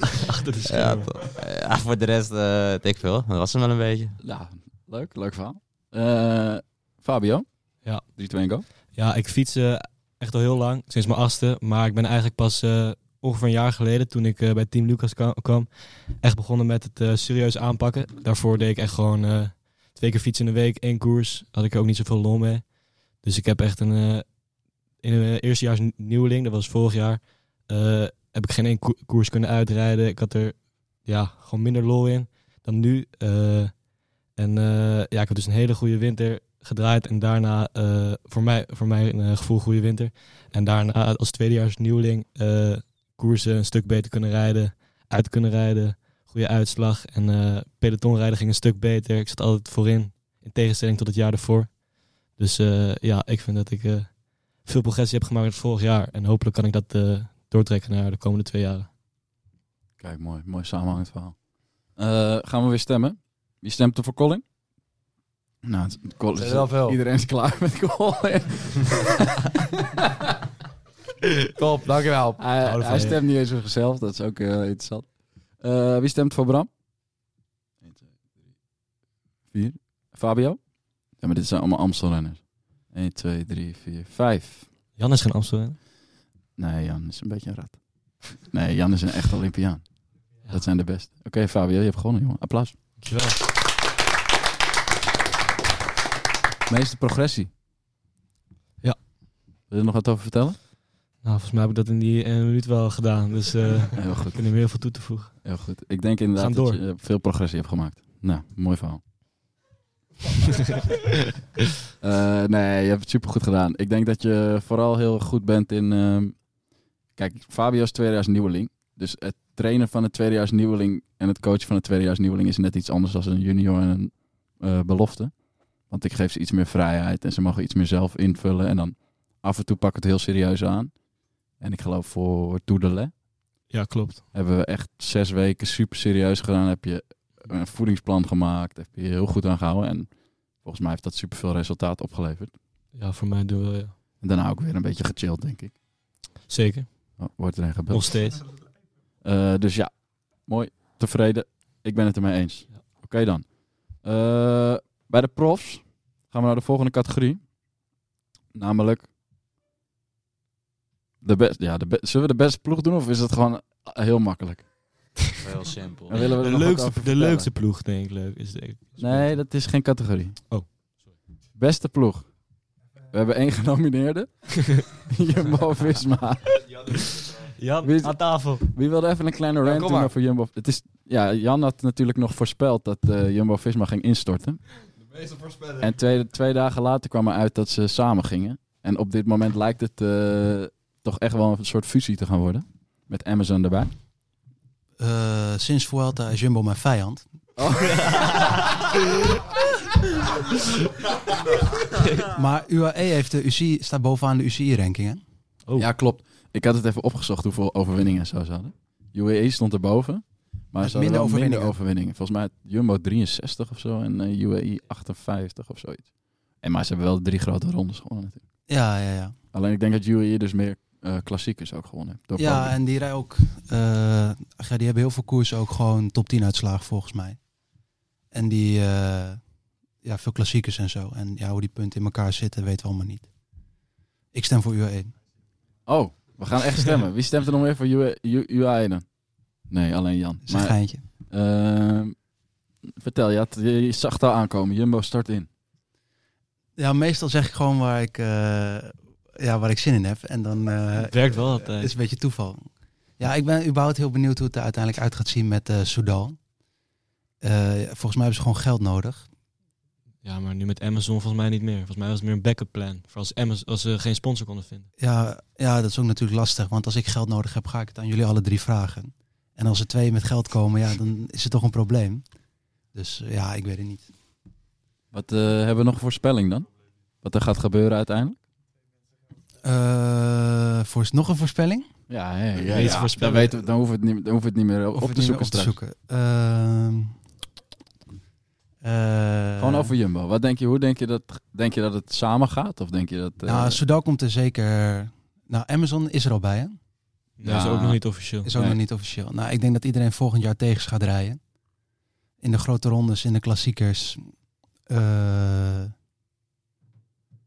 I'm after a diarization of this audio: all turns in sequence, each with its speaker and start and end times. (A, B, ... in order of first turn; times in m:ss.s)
0:00.3-0:01.1 A
0:00.6-0:04.2 B
0:04.2-0:08.6 C
0:07.8-0:58.9 A
1:00.0-1:04.4 C
1:05.6-1:09.2 C
1:06.4-1:07.0 D
1:11.5-1:12.4 D
1:12.4-1:16.7 C
1:12.6-1:13.2 A
1:17.8-1:18.1 C
1:19.5-1:24.7 C
1:25.0-1:25.8 A
1:26.6-1:32.8 C
1:33.0-1:33.4 A
1:36.7-1:37.5 C
1:39.7-1:40.6 C
1:41.2-1:45.5 A
1:44.0-1:44.7 C
1:45.4-1:49.0 C
1:46.4-1:46.8 A
1:52.0-2:10.9 C
2:11.6-2:13.1 C
2:13.7-2:14.2 A
2:14.3-2:22.6 C
2:22.9-2:23.9 A
2:24.2-2:25.7 C
2:26.5-2:27.0 A
2:27.2-2:28.3 C
2:27.9-2:28.4 A
2:29.2-2:37.4 C
2:38.5-2:39.1 C
2:41.2-2:45.2 C
2:45.4-2:46.1 B
2:46.1-2:47.5 C
2:46.1-2:49.4 A
2:49.0-2:50.4 C
2:51.5-2:57.2 C
2:57.6-2:58.5 A
2:57.8-3:04.6 C
2:59.6-3:00.1 D
3:05.8-3:13.9 C
3:15.0-3:17.3 E
3:17.6-3:18.5 C
3:22.3-3:25.2 E
3:25.8-3:38.4 C
3:30.8-3:31.7 E
3:38.7-3:39.3 E
3:39.5-3:42.8 C
3:42.4-3:47.5 E
3:48.3-3:53.3 E
3:54.3-3:55.1 E
3:55.8-4:02.2 C
4:00.5-4:01.0 E
4:02.9-4:05.5 C
4:06.8-4:16.4 E
4:11.0-4:11.9 A
4:17.4-4:19.3 E
4:20.2-4:24.9 A
4:25.0-4:32.3 E
4:32.9-4:34.1 E
4:35.1-4:36.7 C
4:37.2-4:38.4 C
4:39.6-4:41.9 E
4:42.1-4:45.8 C
4:42.6-4:43.5 A
4:45.0-4:47.1 E
4:48.8-4:49.9 E
4:49.6-4:53.8 C
4:53.4-4:56.8 E
4:57.4-4:58.5 A
4:57.4-4:58.8 C
4:58.5-5:01.6 E
5:02.4-5:04.2 E
5:04.8-5:05.9 E